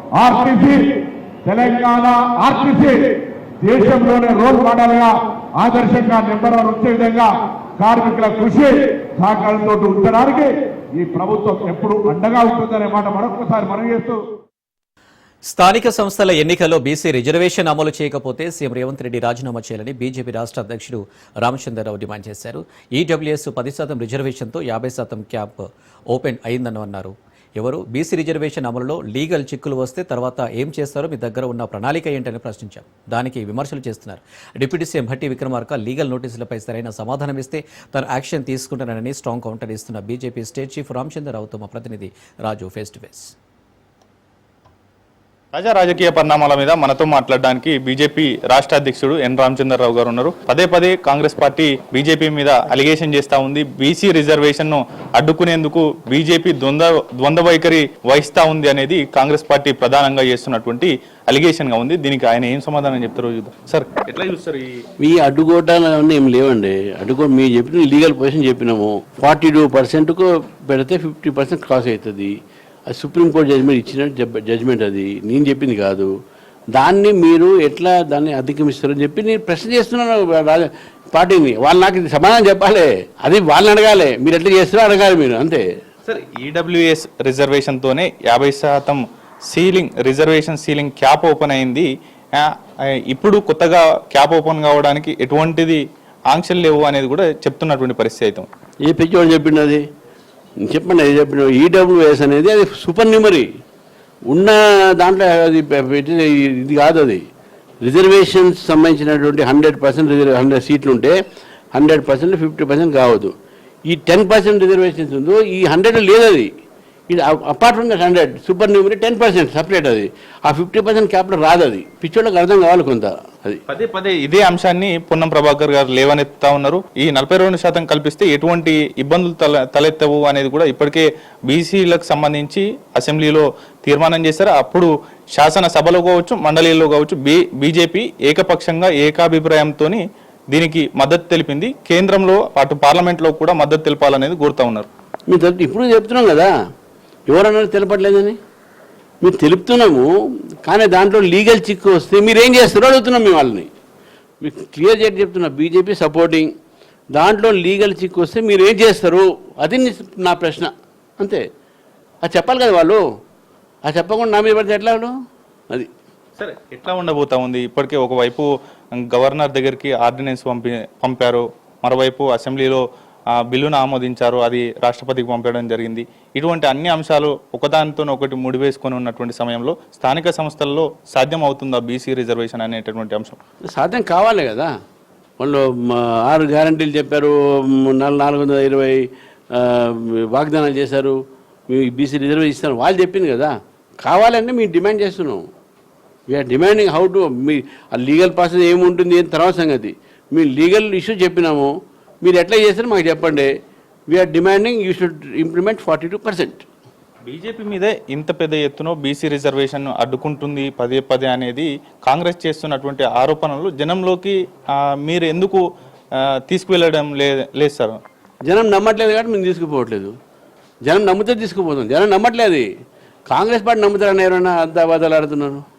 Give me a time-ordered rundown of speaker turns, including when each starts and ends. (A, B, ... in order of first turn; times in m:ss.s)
0:00.2-0:00.9 A
0:01.4-0:14.2 A
0:15.5-0:43.3 B
0:45.5-1:04.8 C
1:05.0-1:12.3 D
1:12.9-1:16.1 D
1:16.7-1:25.6 D
1:26.0-1:32.5 C
1:33.1-1:38.5 C
1:38.9-1:39.8 D
1:40.6-1:43.5 D
1:44.3-1:47.2 D
1:47.8-1:51.2 D
1:51.7-1:53.3 D
1:53.9-1:56.5 D
1:57.1-2:03.6 D
2:03.7-2:24.9 C
2:25.3-2:26.5 D
2:27.3-2:28.4 D
2:29.2-2:30.1 D
2:30.6-2:33.7 D
2:34.4-2:36.5 D
2:37.1-2:41.4 D
2:42.2-2:43.0 D
2:43.9-2:45.1 D
2:46.4-2:52.8 C
2:53.3-3:03.4 C
3:03.7-3:04.7 D
3:05.4-3:11.2 D
3:11.7-3:15.4 D
3:16.3-3:21.7 D
3:22.2-3:23.5 D
3:24.1-3:26.6 D
3:27.2-3:35.6 C
3:36.2-3:38.0 C
3:38.5-3:40.1 D
3:40.8-3:42.7 D
3:43.3-3:45.6 D